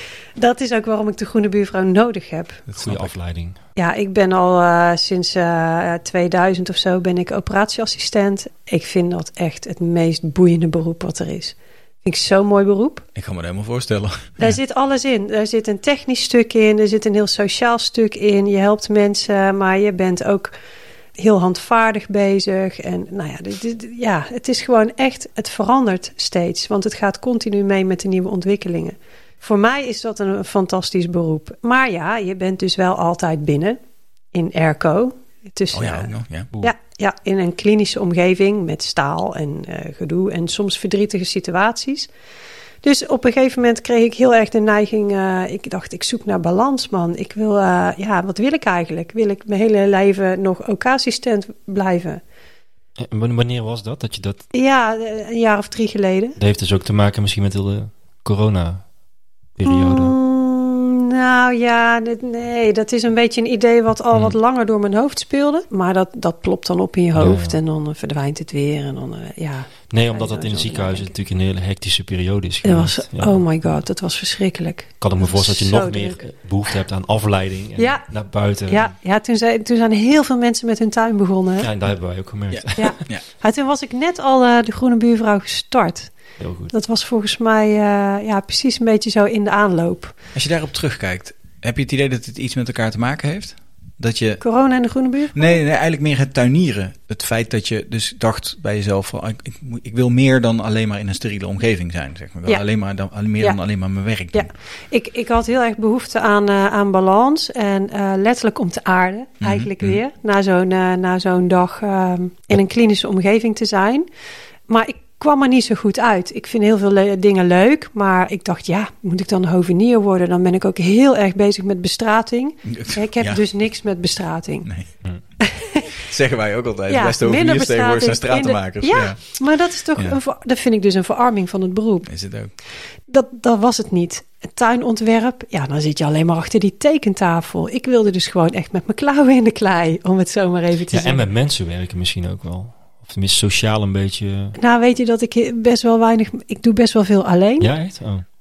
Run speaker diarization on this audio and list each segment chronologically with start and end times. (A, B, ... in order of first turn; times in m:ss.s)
0:00.4-0:02.6 A
0:02.7-0:03.1 B
0:02.8-0:03.6 C
0:03.8-0:13.0 A
0:13.1-0:14.6 B
0:14.4-0:20.5 A
0:21.2-0:33.8 A
0:34.3-0:42.1 A
0:35.7-0:36.5 B
0:42.8-0:52.2 A
0:53.0-0:54.4 C
0:54.5-0:56.4 A
0:56.4-0:58.8 C
0:59.6-1:00.2 C
0:59.6-1:11.1 A
1:07.1-1:07.6 C
1:09.9-1:13.4 C
1:12.6-1:16.2 A
1:15.0-1:18.9 C
1:17.8-1:18.0 A
1:18.7-1:21.7 A
1:21.6-1:22.9 C
1:22.5-1:23.2 B
1:22.8-1:26.1 A
1:26.4-1:26.7 C
1:26.7-1:30.1 A
1:30.3-1:34.4 B
1:34.4-1:35.6 A
1:35.3-1:44.5 B
1:44.3-1:54.1 A
1:49.4-1:50.0 B
1:54.7-2:04.7 A
2:02.6-2:03.4 B
2:05.4-2:06.0 A
2:06.0-2:09.2 B
2:06.9-2:12.1 A
2:12.1-2:12.5 B
2:13.1-2:21.2 A
2:20.9-2:24.6 C
2:24.6-2:27.7 A
2:27.6-2:28.2 C